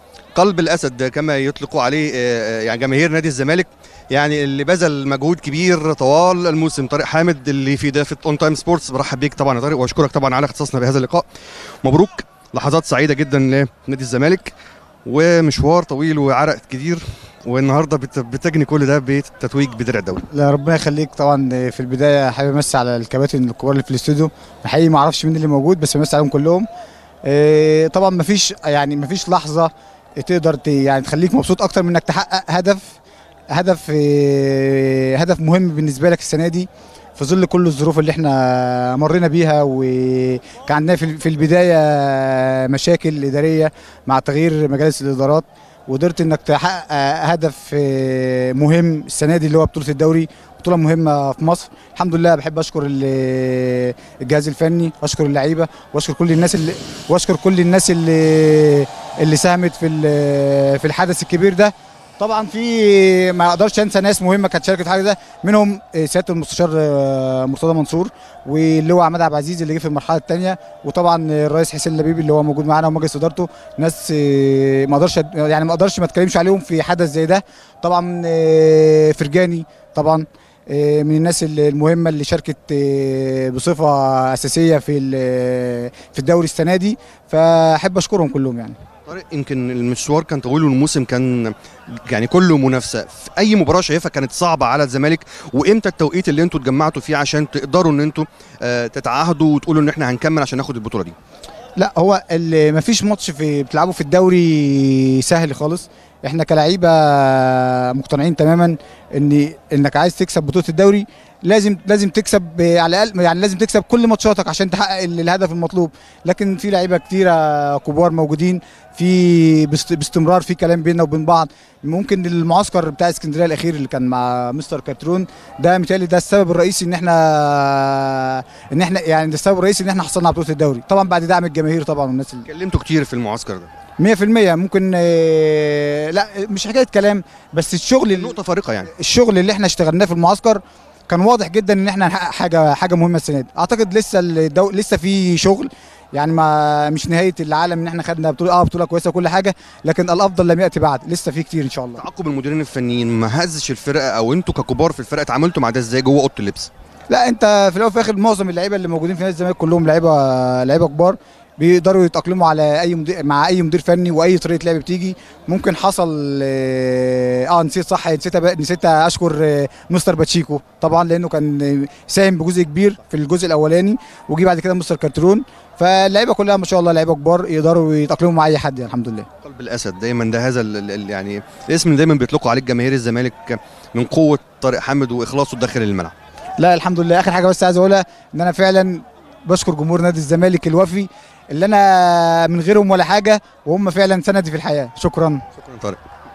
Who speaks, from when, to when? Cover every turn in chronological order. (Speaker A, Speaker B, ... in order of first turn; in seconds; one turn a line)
Speaker A: 0.3-11.2
Speaker A: 11.8-14.5
Speaker A: 15.0-20.3
Speaker B: 20.3-26.7
Speaker B: 27.2-33.0
Speaker B: 33.5-88.7
Speaker A: 89.1-101.1
Speaker B: 101.8-132.4
Speaker A: 132.4-133.7
Speaker B: 134.0-138.3
Speaker A: 138.1-138.9
Speaker B: 138.9-152.0
Speaker A: 152.0-156.7
Speaker B: 157.1-179.3
Speaker A: 179.4-186.1
Speaker B: 186.6-195.4
Speaker A: 195.6-196.0